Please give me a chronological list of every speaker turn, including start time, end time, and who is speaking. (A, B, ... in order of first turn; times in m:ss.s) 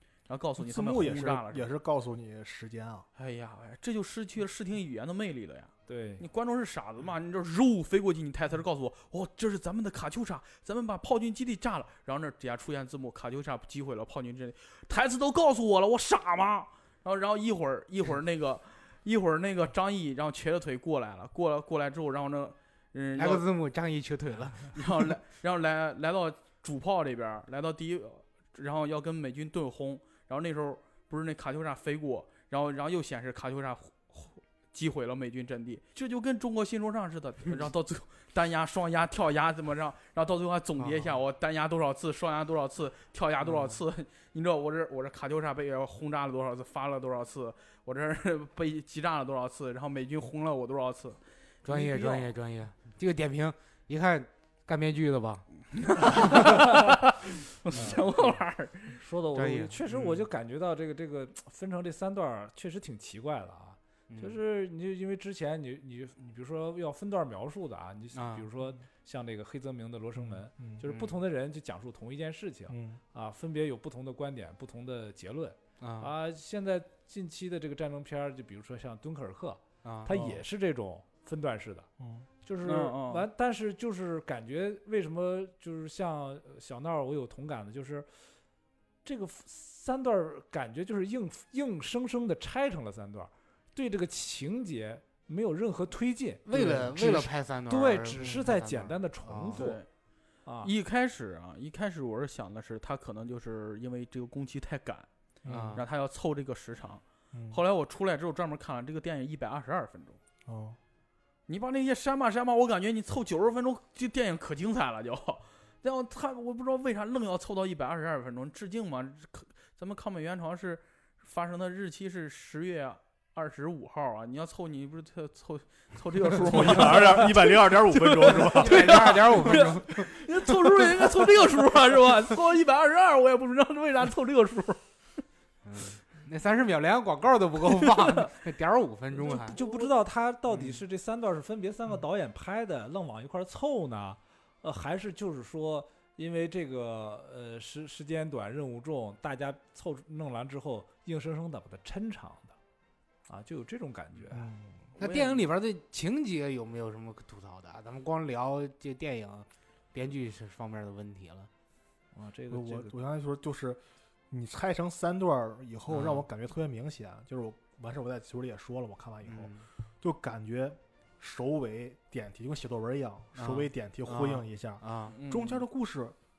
0:00.3-0:01.7 A
0:00.6-0:03.1 B
0:03.2-0:23.5 A
0:05.9-0:06.3 C
0:23.2-0:25.1 D
0:24.7-0:52.3 A
0:40.8-0:41.1 D
0:43.5-0:43.8 D
0:51.6-0:55.5 D
0:55.8-0:59.0 A
0:57.7-0:58.4 C
0:58.9-1:21.9 C
0:59.4-0:59.8 D
1:04.1-1:04.4 D
1:08.1-1:08.5 D
1:10.2-1:10.8 B
1:10.9-1:11.1 D
1:12.7-1:13.0 B
1:15.8-1:16.1 D
1:19.8-1:20.2 D
1:20.1-1:20.4 B
1:22.0-1:22.3 B
1:22.4-1:28.1 C
1:22.6-1:23.3 A
1:29.0-1:39.8 C
1:36.5-1:39.7 D
1:39.6-1:39.9 A
1:40.5-1:40.7 C
1:40.6-1:45.1 A
1:45.4-1:45.7 B
1:45.5-1:45.8 D
1:45.8-1:50.2 A
1:47.3-1:47.6 B
1:50.5-1:50.8 B
1:51.5-2:14.8 A
2:06.4-2:09.7 B
2:08.3-2:10.1 D
2:15.6-2:19.6 D
2:17.7-2:18.3 A
2:19.2-2:32.6 C
2:19.2-2:19.9 A
2:33.3-2:34.5 C
2:34.3-2:34.9 B
2:35.0-2:35.5 A
2:35.0-2:41.5 D
2:42.1-2:42.9 C
2:42.5-2:56.2 B
2:45.9-2:46.2 D
2:49.3-2:49.7 D
2:53.4-2:55.2 D
2:55.1-2:55.6 A